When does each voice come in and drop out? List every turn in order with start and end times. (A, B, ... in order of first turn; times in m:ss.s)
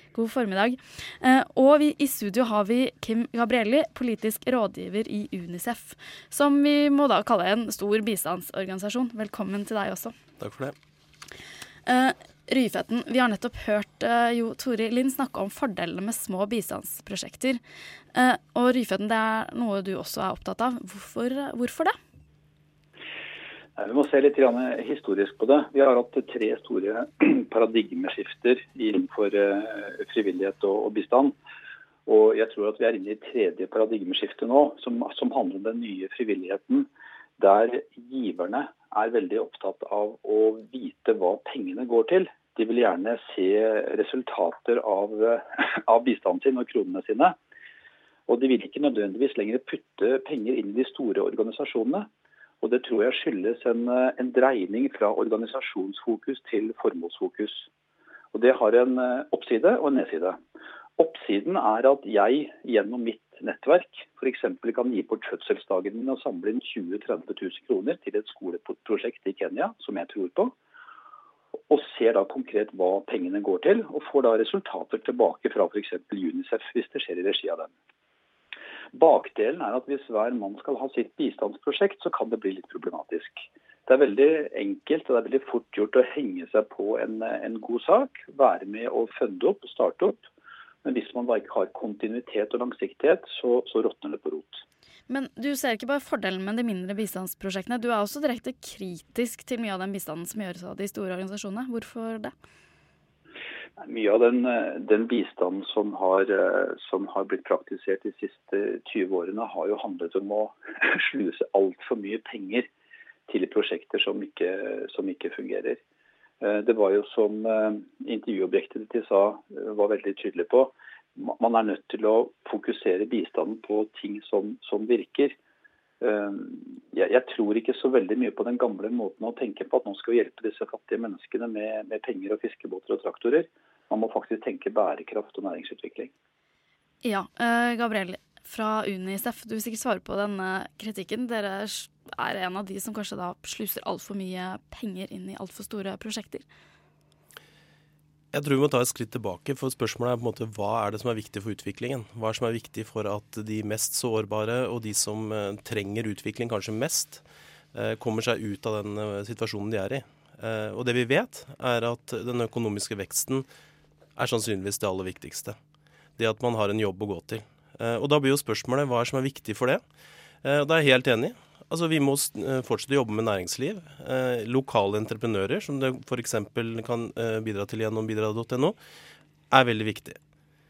0:00.1-0:10.1 A
0:10.4-0:10.7 B
0:11.8-0:17.6 A
0:18.1-0:21.9 A
0:23.8-0:31.4 C
0:32.0-0:36.9 C
0:37.4-0:47.4 C
0:48.3-0:52.1 C
0:52.6-0:57.7 C
0:58.3-1:00.4 C
1:01.0-1:10.5 C
1:11.7-1:17.7 C
1:18.9-1:30.2 C
1:30.8-1:34.6 C
1:35.1-1:42.3 A
1:43.8-1:52.7 C
1:53.3-1:55.8 C
1:56.4-2:05.4 C
2:06.0-2:16.1 C
2:17.0-2:26.4 A
2:28.3-2:37.2 B
2:37.7-2:43.4 B
2:44.2-2:45.6 B
2:46.2-2:49.8 B
2:50.4-2:58.8 B
2:59.5-3:00.2 B